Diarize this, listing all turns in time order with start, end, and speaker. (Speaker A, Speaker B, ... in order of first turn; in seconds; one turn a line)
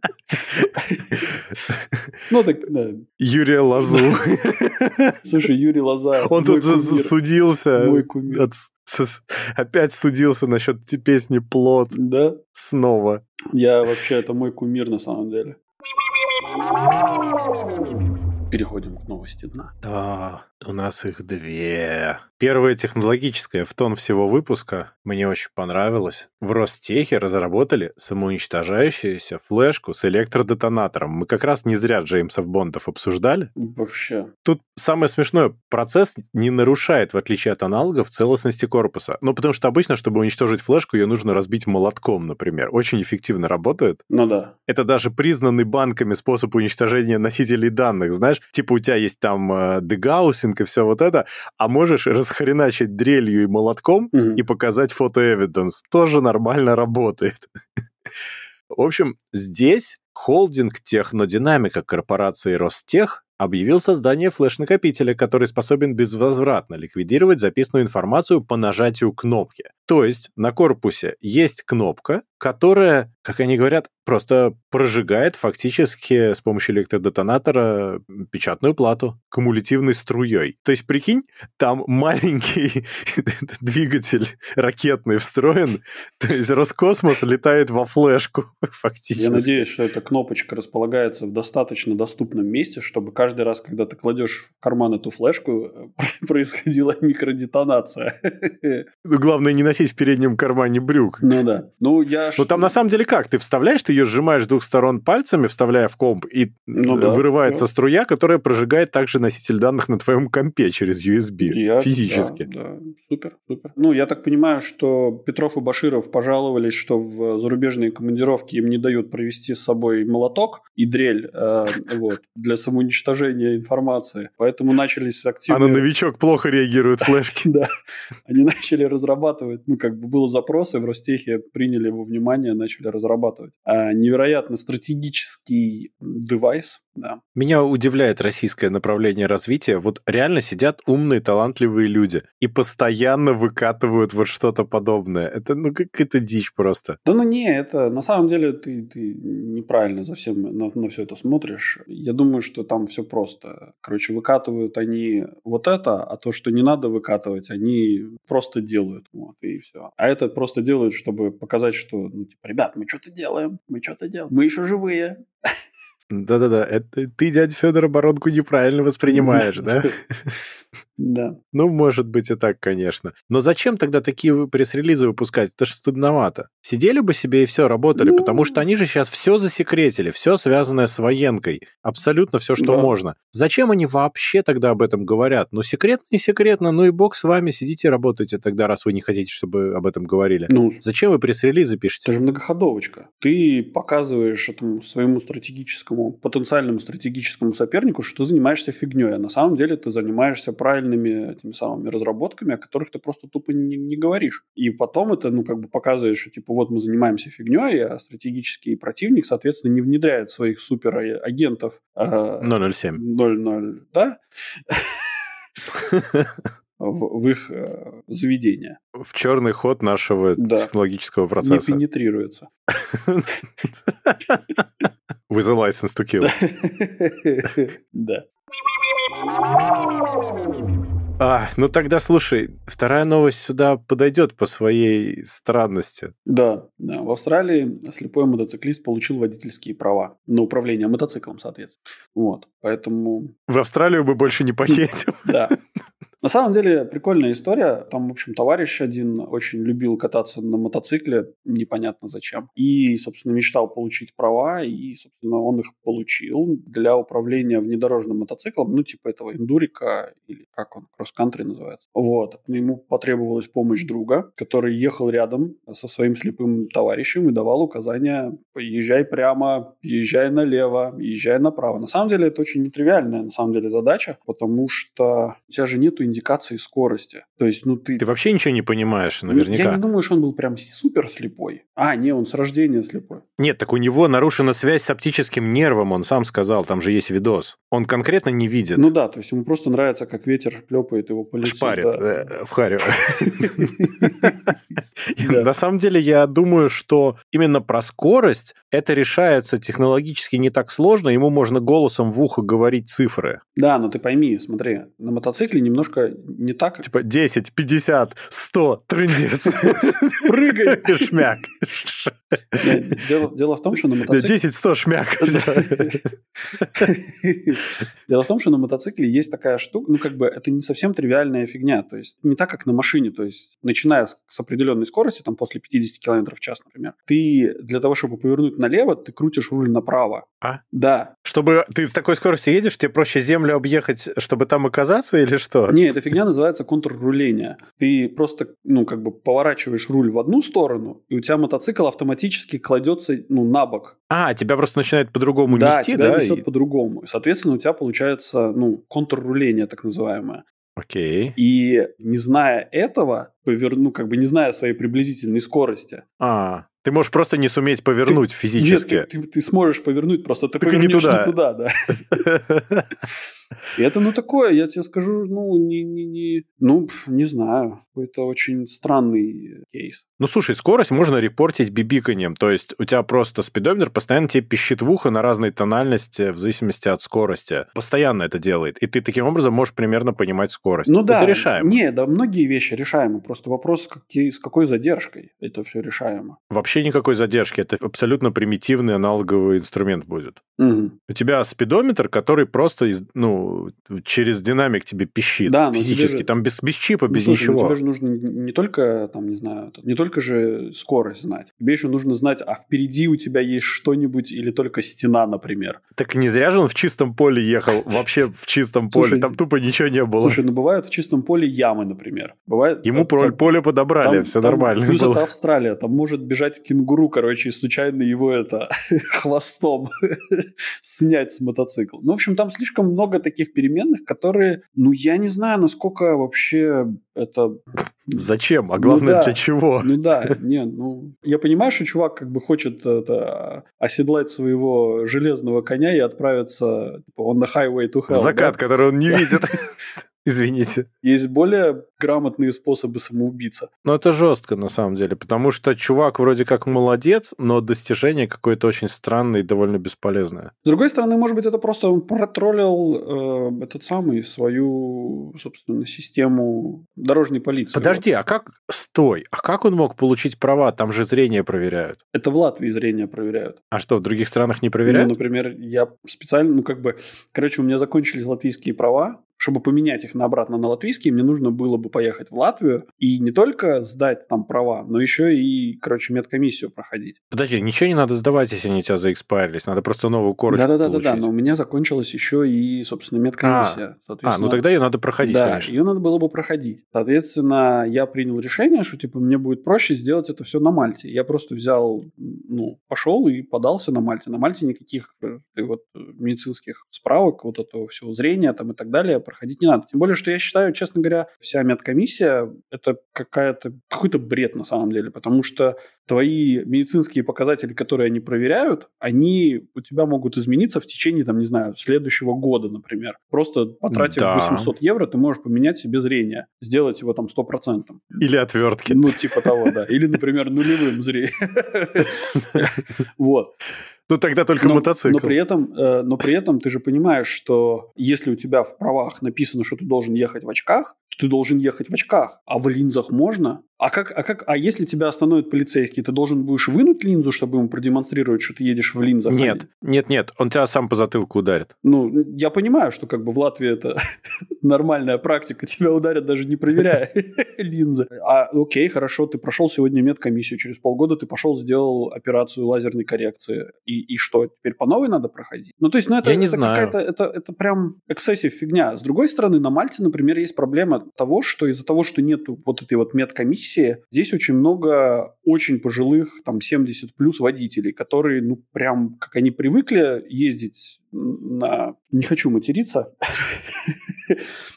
Speaker A: 0.5-1.2
Speaker B: 0.5-2.1
Speaker A: 2.3-3.1
Speaker B: 3.2-5.2
Speaker A: 3.8-4.2
Speaker A: 5.2-7.2
Speaker B: 6.3-11.9
Speaker A: 7.8-8.5
Speaker A: 11.9-12.4
Speaker B: 12.5-13.2
Speaker A: 13.5-15.6
Speaker A: 18.5-19.7
Speaker B: 19.8-33.5
Speaker A: 33.6-34.3
Speaker B: 34.5-44.0
Speaker A: 44.1-44.5
Speaker B: 44.7-57.5
Speaker A: 54.1-54.4
Speaker B: 58.7-89.7
Speaker A: 89.2-98.9
Speaker B: 99.0-101.4
Speaker A: 101.2-102.7
Speaker B: 102.4-112.5
Speaker A: 106.8-107.7
Speaker A: 111.4-125.9
Speaker B: 125.5-127.5
Speaker A: 127.0-127.7
Speaker A: 128.3-137.2
Speaker B: 137.3-147.0
Speaker A: 147.1-165.2
Speaker B: 166.1-170.3
Speaker A: 169.1-169.9
Speaker A: 171.0-171.4
Speaker B: 171.5-192.1
Speaker A: 178.0-178.6
Speaker A: 182.6-182.9
Speaker A: 190.5-190.8
Speaker A: 192.1-215.0
Speaker B: 212.4-213.0
Speaker B: 215.7-216.4
Speaker A: 216.8-218.8
Speaker B: 219.0-221.8
Speaker A: 220.4-220.7
Speaker A: 221.4-222.5
Speaker B: 222.8-224.4
Speaker B: 225.3-226.4
Speaker A: 226.2-228.3
Speaker B: 231.2-236.1
Speaker A: 236.3-243.3
Speaker B: 243.5-245.6
Speaker A: 244.7-245.5
Speaker A: 246.2-278.0
Speaker B: 278.0-279.8
Speaker A: 279.3-283.2
Speaker B: 283.4-288.9
Speaker A: 288.8-292.3
Speaker B: 291.4-294.3
Speaker A: 293.0-294.5
Speaker B: 295.1-303.4
Speaker A: 295.2-295.5
Speaker A: 303.6-306.9
Speaker B: 306.8-312.8
Speaker A: 309.7-311.2
Speaker A: 312.6-314.4
Speaker B: 314.1-316.9
Speaker A: 315.2-316.0
Speaker A: 316.7-331.1
Speaker B: 331.2-335.9
Speaker A: 335.7-344.0
Speaker B: 344.1-346.4
Speaker A: 345.5-350.4
Speaker B: 350.8-351.4
Speaker A: 351.4-356.0
Speaker B: 356.2-359.1
Speaker A: 358.1-362.2
Speaker B: 360.6-361.3
Speaker B: 362.1-362.9
Speaker A: 363.8-370.0
Speaker B: 370.2-381.8
Speaker A: 380.9-386.4
Speaker B: 386.5-390.4
Speaker A: 390.6-391.0
Speaker B: 391.1-397.8
Speaker A: 395.4-396.3
Speaker A: 397.1-405.8
Speaker B: 405.9-410.4
Speaker A: 408.9-409.4
Speaker A: 410.2-413.5
Speaker B: 412.8-415.3
Speaker A: 414.0-439.5
Speaker B: 428.1-430.3
Speaker B: 438.1-439.6
Speaker B: 440.2-440.9
Speaker A: 441.0-443.7
Speaker B: 443.8-450.5
Speaker A: 450.6-458.0
Speaker B: 457.7-462.0
Speaker A: 462.1-463.6
Speaker B: 463.7-465.1
Speaker A: 464.9-477.2
Speaker B: 477.3-481.3
Speaker A: 480.5-484.6
Speaker B: 483.4-485.7
Speaker A: 485.2-518.2
Speaker B: 513.9-514.7
Speaker B: 518.2-519.7
Speaker A: 518.9-523.5
Speaker B: 524.1-525.4
Speaker A: 524.6-539.7
Speaker B: 539.3-541.7
Speaker A: 541.8-544.0
Speaker A: 544.6-574.4
Speaker B: 556.2-557.0